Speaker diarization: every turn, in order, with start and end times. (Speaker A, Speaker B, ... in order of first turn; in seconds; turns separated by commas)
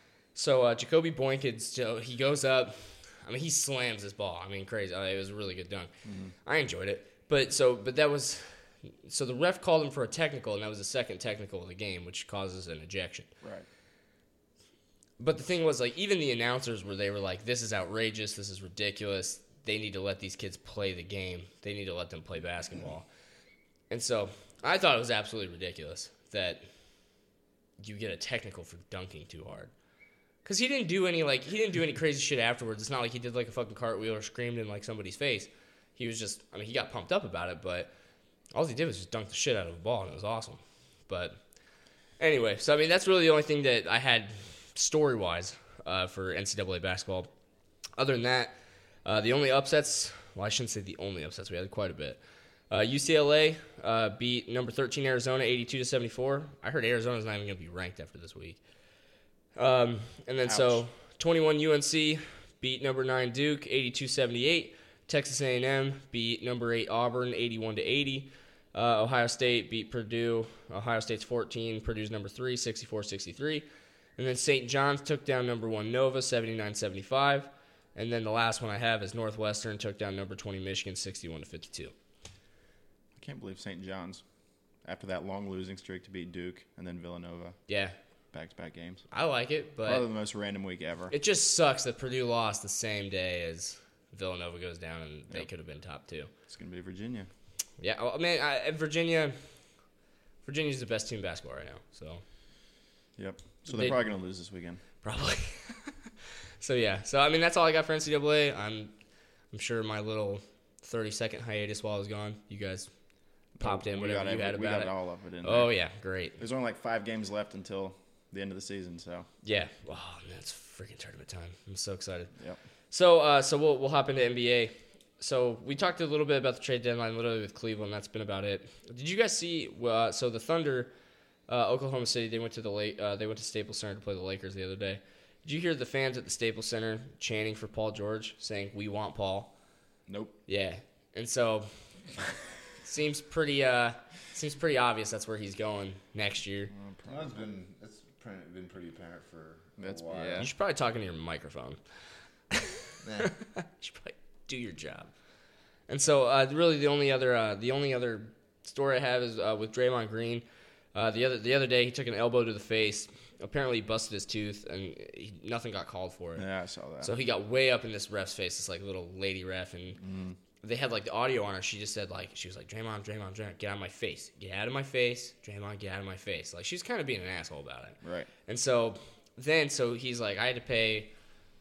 Speaker A: 0.3-5.9, Speaker B: 6.0-6.3, Speaker A: 6.4-13.3, Speaker A: 15.2-23.1, Speaker A: 23.9-26.6, Speaker A: 27.8-29.7, Speaker A: 30.4-37.9, Speaker A: 38.5-41.4, Speaker A: 42.2-47.3, Speaker A: 48.0-48.5, Speaker A: 49.0-58.6, Speaker A: 59.5-73.6, Speaker B: 60.5-60.8, Speaker A: 74.2-81.9, Speaker B: 83.2-84.2, Speaker B: 84.8-87.6, Speaker A: 87.7-87.9, Speaker B: 88.3-89.0, Speaker A: 89.1-90.0, Speaker B: 89.8-91.1, Speaker A: 91.1-96.3, Speaker B: 96.5-97.3, Speaker A: 97.8-99.3, Speaker A: 100.4-102.2, Speaker B: 103.2-104.8, Speaker A: 103.7-104.0, Speaker A: 105.0-106.0, Speaker A: 106.6-108.9, Speaker A: 109.5-112.9, Speaker B: 113.5-115.7, Speaker A: 113.6-114.9, Speaker A: 115.4-116.4, Speaker B: 116.4-119.3, Speaker A: 119.4-122.3, Speaker A: 122.9-130.9, Speaker A: 131.5-139.5, Speaker B: 140.1-140.4, Speaker A: 140.5-141.8, Speaker A: 142.8-146.7, Speaker B: 146.7-147.3, Speaker C: 147.1-150.5, Speaker B: 149.8-150.5, Speaker A: 150.4-151.8, Speaker A: 152.5-155.1, Speaker C: 153.0-153.3, Speaker A: 155.9-166.4, Speaker B: 166.4-167.1, Speaker A: 167.0-170.0, Speaker B: 170.0-170.4, Speaker A: 170.6-181.1, Speaker B: 178.0-178.3